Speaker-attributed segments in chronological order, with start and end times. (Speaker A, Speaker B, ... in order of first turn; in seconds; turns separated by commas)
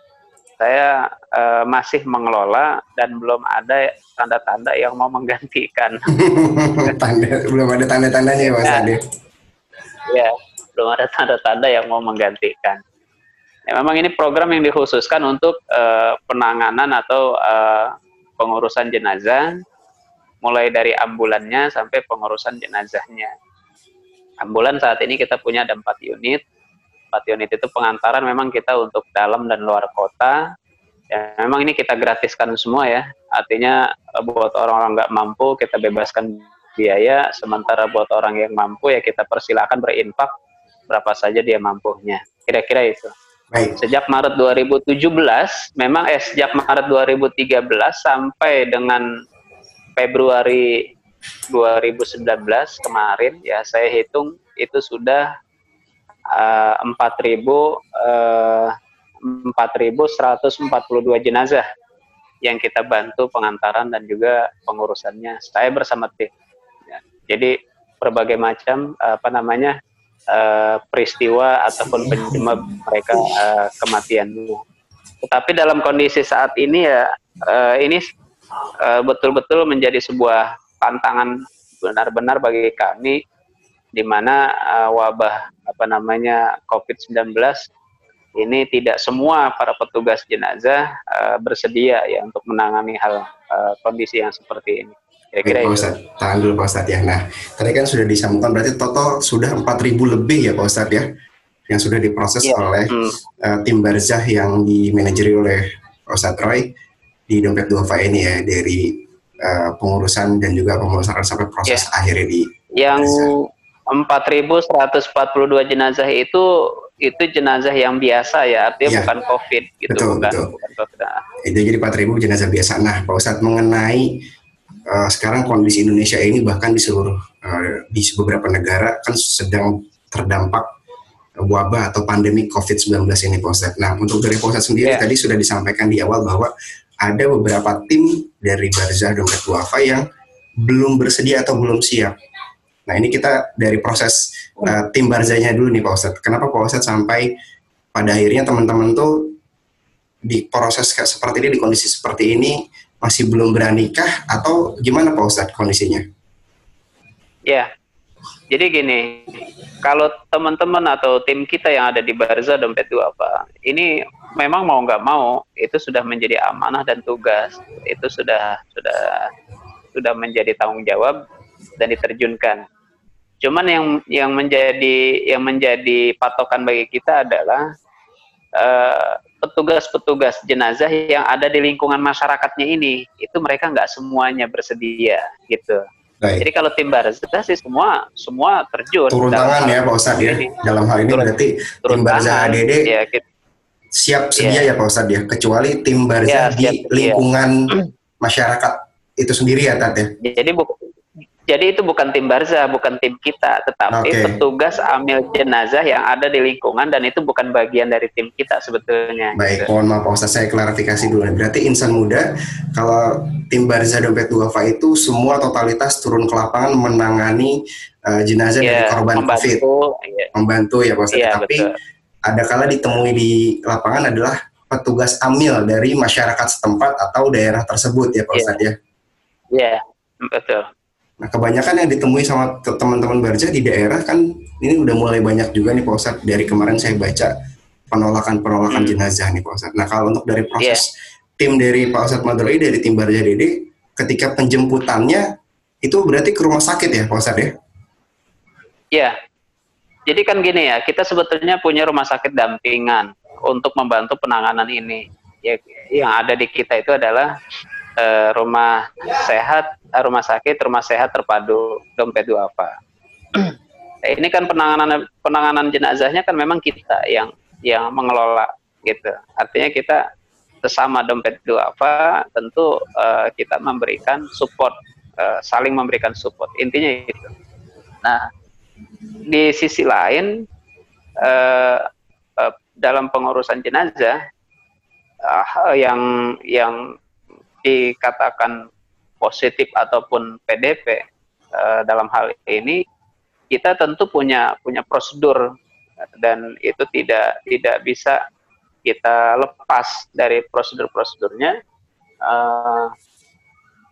Speaker A: 0.6-6.0, Speaker B: 6.1-9.0, Speaker A: 8.4-8.9, Speaker A: 10.1-12.8, Speaker A: 13.7-19.5, Speaker A: 20.4-23.3, Speaker A: 24.4-26.4, Speaker A: 27.1-30.4, Speaker A: 31.1-40.3, Speaker A: 40.9-43.1, Speaker B: 43.5-43.8, Speaker A: 43.8-49.0, Speaker A: 50.0-50.7, Speaker A: 51.5-55.3, Speaker A: 56.3-58.7, Speaker A: 59.2-61.6, Speaker A: 62.5-66.3, Speaker A: 66.9-69.8, Speaker A: 70.3-74.6, Speaker B: 71.9-72.4, Speaker A: 75.2-78.0, Speaker A: 78.8-83.2, Speaker A: 84.0-87.6, Speaker A: 88.4-95.9, Speaker B: 95.4-101.1, Speaker B: 101.7-106.7, Speaker A: 102.4-103.2, Speaker B: 107.3-113.3, Speaker A: 112.8-113.3, Speaker A: 113.9-116.5, Speaker A: 117.0-121.2, Speaker B: 118.9-119.1, Speaker B: 119.9-120.5, Speaker B: 121.4-124.1, Speaker B: 124.9-130.7, Speaker B: 131.4-136.5, Speaker B: 137.0-140.1, Speaker B: 140.6-142.2, Speaker B: 142.9-147.3, Speaker B: 147.9-149.3, Speaker B: 150.3-156.1, Speaker A: 158.5-169.3, Speaker A: 170.0-171.2, Speaker A: 171.8-172.6, Speaker A: 173.4-177.7, Speaker A: 178.6-185.8, Speaker A: 186.4-190.5, Speaker B: 189.1-192.9, Speaker A: 191.9-193.2, Speaker B: 194.0-197.6, Speaker A: 194.4-194.7, Speaker A: 196.3-197.9, Speaker B: 198.2-200.1, Speaker A: 200.2-200.9, Speaker A: 201.5-209.7, Speaker B: 203.9-204.4, Speaker B: 209.4-219.6, Speaker A: 218.6-220.3, Speaker B: 220.3-221.7, Speaker A: 221.1-221.7, Speaker B: 222.3-228.8, Speaker A: 228.3-228.6, Speaker A: 229.5-230.7, Speaker B: 231.2-237.3, Speaker B: 237.9-245.2, Speaker B: 245.8-247.5, Speaker A: 250.1-257.3, Speaker A: 258.0-262.7, Speaker A: 264.1-270.0, Speaker A: 270.6-277.3, Speaker A: 278.0-278.3, Speaker A: 279.3-280.3, Speaker A: 281.2-281.9, Speaker A: 282.4-284.2, Speaker A: 285.3-286.8, Speaker A: 287.6-288.6, Speaker A: 289.2-291.0, Speaker A: 291.6-292.8, Speaker A: 293.5-295.4, Speaker A: 296.2-298.2, Speaker A: 298.9-301.5, Speaker A: 302.3-302.9